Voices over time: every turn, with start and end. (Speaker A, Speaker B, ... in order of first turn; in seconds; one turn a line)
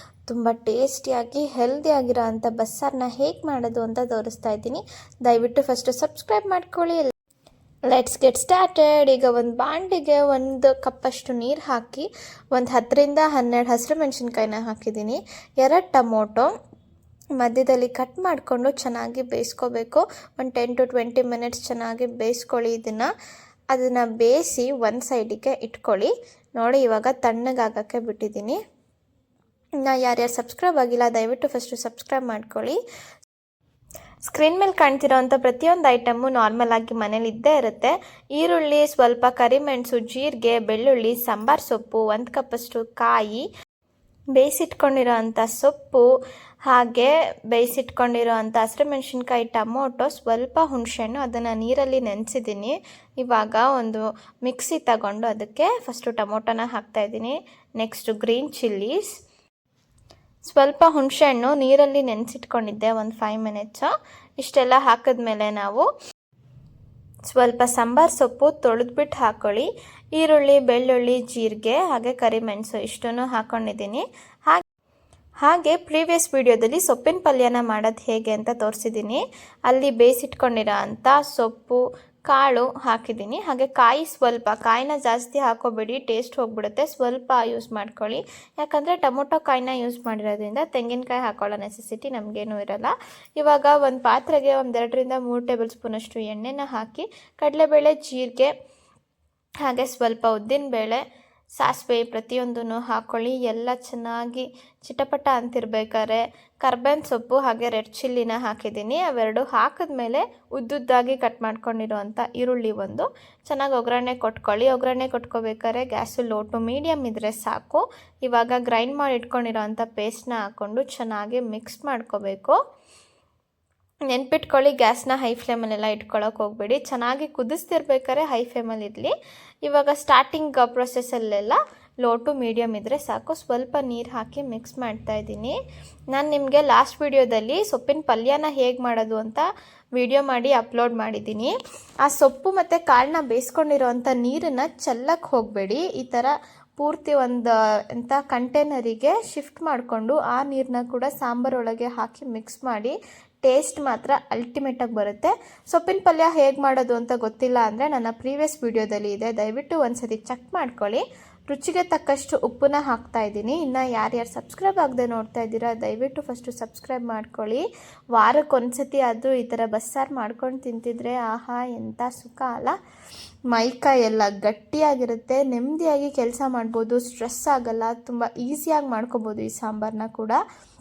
Speaker A: 0.3-7.1
Speaker A: 7.9-16.5
Speaker A: 17.4-23.1
Speaker A: 23.7-28.6
Speaker A: 29.8-32.8
Speaker A: 34.2-43.4
Speaker A: 44.4-46.0
Speaker A: 46.7-59.1
Speaker A: 60.4-65.9
Speaker A: 67.3-74.6
Speaker A: 75.4-98.5
Speaker A: 99.6-101.0
Speaker A: 101.6-122.6
Speaker A: 124.1-129.1
Speaker A: 129.7-135.6
Speaker A: 136.1-139.4
Speaker A: 140.0-172.8
Speaker A: 173.5-180.4